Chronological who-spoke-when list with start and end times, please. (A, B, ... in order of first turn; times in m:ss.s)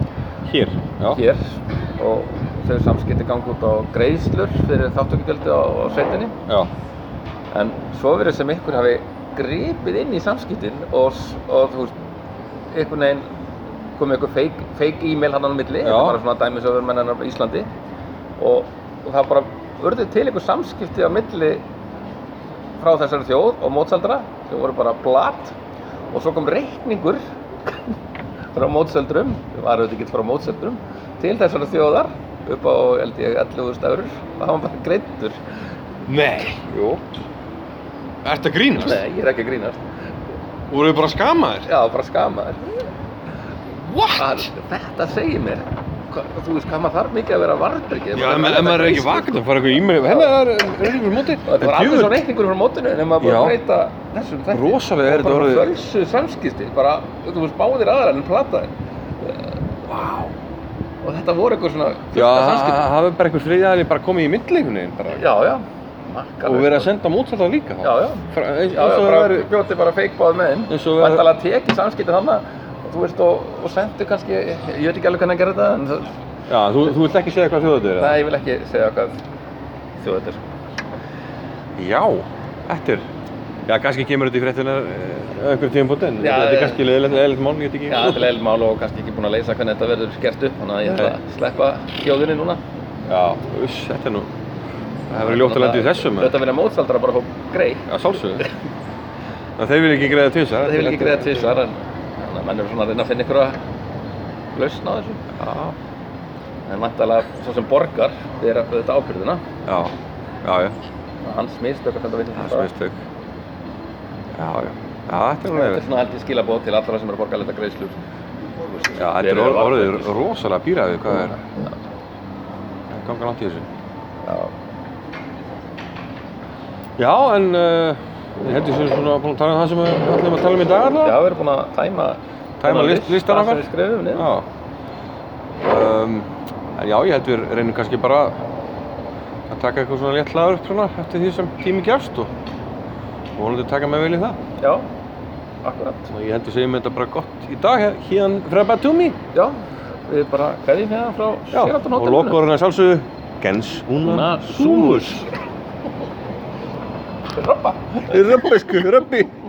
0:00.4-0:01.2 A
0:01.1-0:06.3 B
0:07.5-0:11.9 B
0:12.7-0:13.3 B
0:14.0-0:17.7 B
0:15.8-0:16.2 A
0:18.4-0:21.6 B
0:22.8-0:25.5 B
0:26.1-0:27.9 B
0:28.5-0:35.4 B
0:36.1-0:37.0 A
0:38.2-0:39.0 A
0:38.8-0:39.8 B
0:40.7-0:41.7 A
0:41.6-0:42.8 B
0:43.8-0:44.5 A
0:44.2-0:50.4 B
0:48.1-0:52.2 A
0:51.4-0:58.7 B
0:53.2-0:53.6 A
0:54.5-0:55.8 A
0:59.2-1:00.0 B
0:59.9-1:00.3 A
1:01.0-1:02.9 B
1:02.1-1:05.2 A
1:05.1-1:06.9 B
1:06.4-1:09.5 A
1:07.8-1:16.1 B
1:10.7-1:11.3 A
1:16.5-1:18.2 A
1:18.0-1:19.2 B
1:20.0-1:20.6 B
1:21.8-1:23.1 A
1:23.7-1:28.3 A
1:26.2-1:26.8 B
1:27.9-1:32.6 B
1:33.1-1:34.3 A
1:35.1-1:36.3 A
1:35.2-1:38.5 B
1:37.9-1:38.5 A
1:39.6-1:41.6 A
1:40.6-1:43.6 B
1:44.5-1:45.2 B
1:45.4-1:45.7 A
1:46.7-1:49.4 B
1:49.6-1:50.8 A
1:51.2-1:52.7 B
1:52.4-1:53.0 A
1:54.3-1:55.8 A
1:55.5-1:58.0 B
1:58.8-2:00.1 B
1:59.0-2:01.4 A
2:02.9-2:03.7 A
2:04.2-2:04.5 B
2:07.0-2:11.2 A
2:11.0-2:14.3 B
2:12.6-2:14.4 A
2:15.6-2:18.3 A
2:19.5-2:22.3 A
2:23.4-2:24.4 A
2:24.6-2:24.8 B
2:25.6-2:26.1 B
2:26.1-2:29.2 A
2:29.3-2:32.4 B
2:31.5-2:35.2 A
2:34.0-2:35.3 B
2:37.3-2:38.6 B
2:38.0-2:39.3 A